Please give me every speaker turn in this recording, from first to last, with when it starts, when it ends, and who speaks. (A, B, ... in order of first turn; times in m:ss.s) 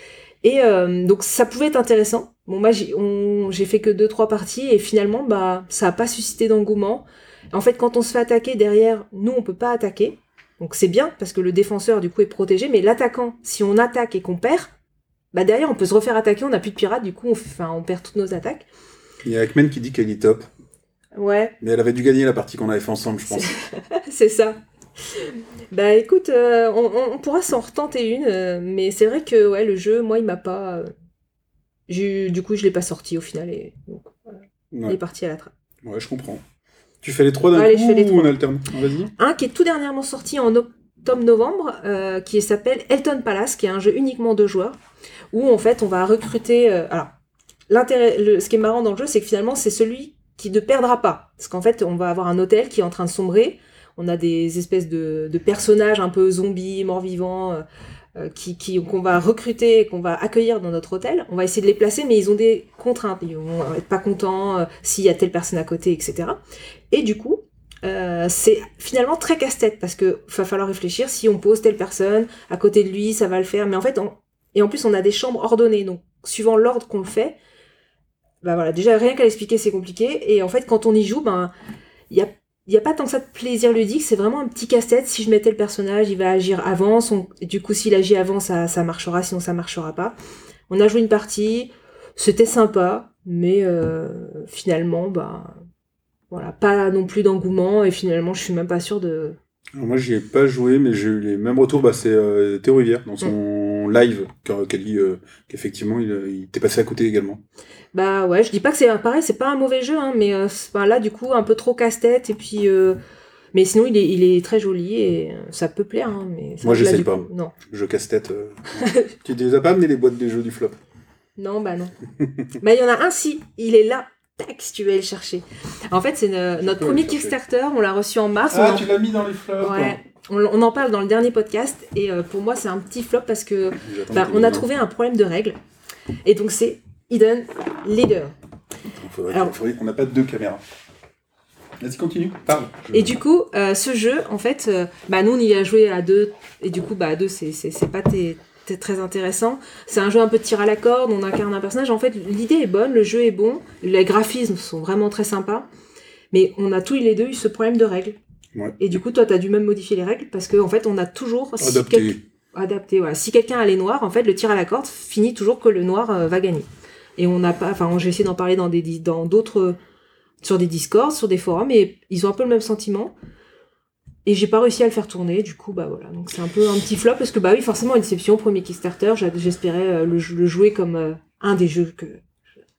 0:00.4-0:14.7 A
0:15.3-0:18.7 A
0:19.2-0:20.5 B
0:21.2-0:21.6 A
0:21.6-0:23.5 B
0:23.3-0:24.6 A
0:25.1-0:30.9 A
0:31.9-0:34.2 A
0:34.7-0:35.0 B
0:34.9-0:35.5 A
0:35.8-0:36.4 B
0:37.0-0:39.1 B
0:37.5-0:38.4 A
0:39.2-0:44.8 A
0:45.3-0:47.1 A
0:47.7-0:57.6 A
0:58.2-1:06.4 A
1:06.9-1:17.4 A
1:18.4-1:21.5 A
1:22.1-1:30.2 A
1:30.7-1:35.5 A
1:36.3-1:39.4 A
1:39.8-1:47.4 B
1:47.9-1:53.0 A
1:53.5-1:57.5 A
1:56.6-2:00.8 B
1:58.8-1:59.1 A
2:01.4-2:02.0 A
2:02.6-2:08.9 A
2:06.7-2:07.3 B
2:08.5-2:10.0 B
2:09.6-2:15.6 A
2:13.8-2:14.7 B
2:16.2-2:18.3 A
2:18.9-2:20.6 B
2:21.8-2:23.2 B
2:22.9-2:35.7 A
2:36.3-2:38.2 A
2:38.8-2:49.8 A
2:41.6-2:42.2 B
2:50.4-2:53.1 A
2:54.2-3:02.2 A